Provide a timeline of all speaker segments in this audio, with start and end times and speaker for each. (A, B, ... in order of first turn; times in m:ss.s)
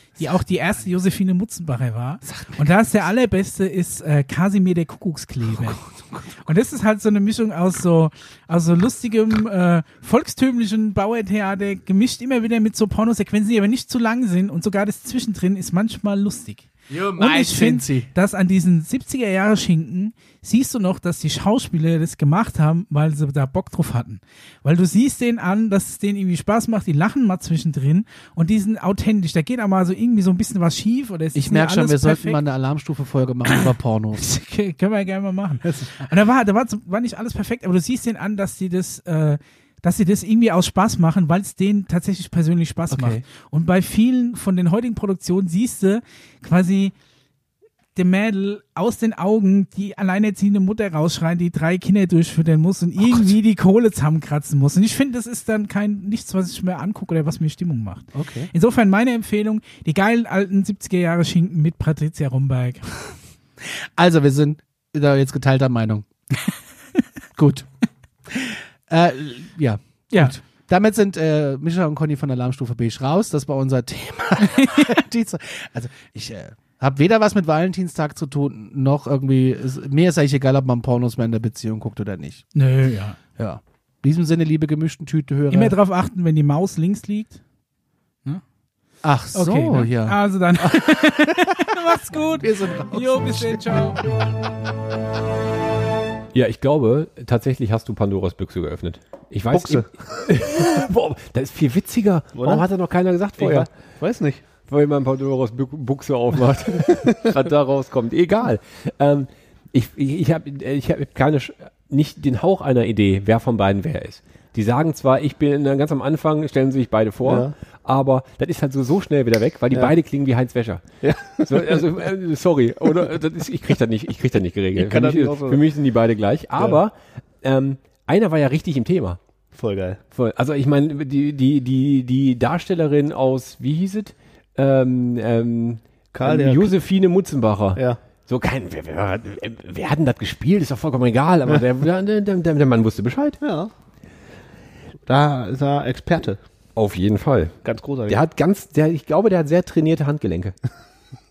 0:00.2-0:05.8 A
0:02.2-0:02.7 B
0:05.5-0:06.4 B
0:06.4-0:32.4 A
0:16.9-0:18.1 B
0:31.3-0:34.2 B
0:33.5-0:46.9 A
0:35.6-0:36.0 B
0:42.9-0:43.2 B
0:48.0-1:03.0 A
0:53.0-0:53.3 B
0:58.1-0:58.5 B
1:04.0-1:06.1 B
1:07.4-1:07.7 B
1:08.3-1:22.5 B
1:14.6-1:14.8 A
1:22.5-1:23.2 A
1:23.4-1:25.8 B
1:25.5-1:27.4 A
1:29.0-1:30.9 B
1:29.3-1:34.0 A
1:32.4-1:33.7 B
1:36.3-1:43.7 C
1:39.5-1:39.9 D
1:42.4-1:42.6 D
1:43.4-1:44.4 D
1:44.7-2:00.8 C
1:57.2-1:57.5 D
2:01.0-2:01.8 D
2:01.4-2:09.2 C
2:04.8-2:05.6 D
2:09.5-2:10.0 D
2:10.1-2:23.4 C
2:16.1-2:16.7 D
2:23.4-2:23.7 D
2:25.1-2:26.4 D
2:26.8-2:30.6 C
2:27.6-2:28.2 D